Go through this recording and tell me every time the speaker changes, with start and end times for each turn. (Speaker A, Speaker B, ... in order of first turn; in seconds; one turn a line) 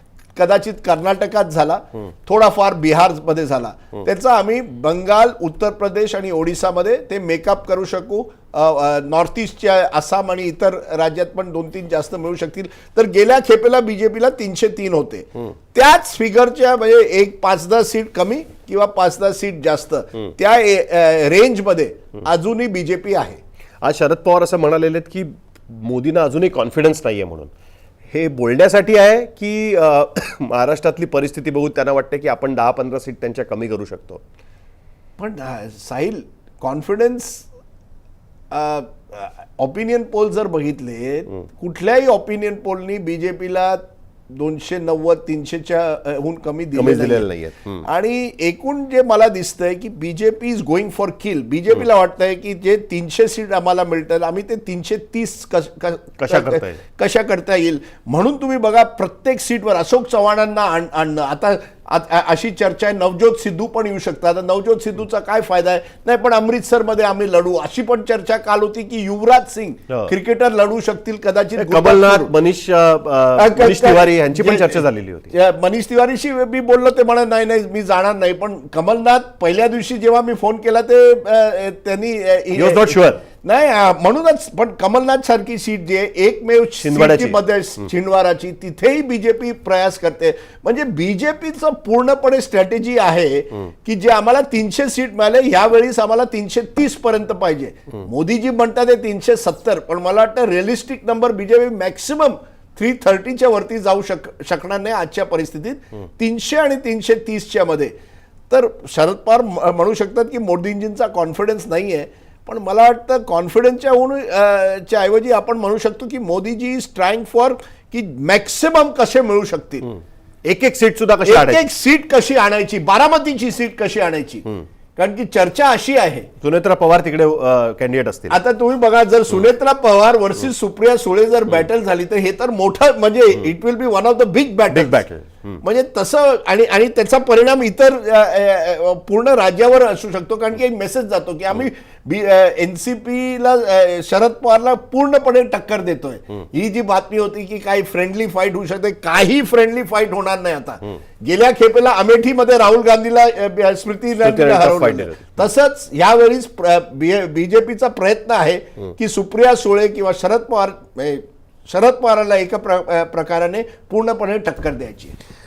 Speaker A: 0.4-23.4
Speaker B: 23.8-27.5
Speaker B: 28.1-34.2
Speaker A: 35.2-37.5
Speaker A: 38.5-47.3
Speaker B: 46.8-47.9
Speaker A: 47.8-72.3
Speaker B: 56.2-56.8
Speaker B: 71.6-75.3
Speaker A: 73.4-107.9
Speaker B: 82.5-83.2
Speaker B: 86.8-87.4
Speaker A: 108.5-119.9
Speaker B: 120.5-121.6
Speaker A: 121.2-124.4
Speaker A: 125.0-126.3
Speaker B: 126.4-128.4
Speaker A: 128.3-135.0
Speaker B: 134.7-135.6
Speaker A: 135.6-165.2
Speaker B: 154.2-155.3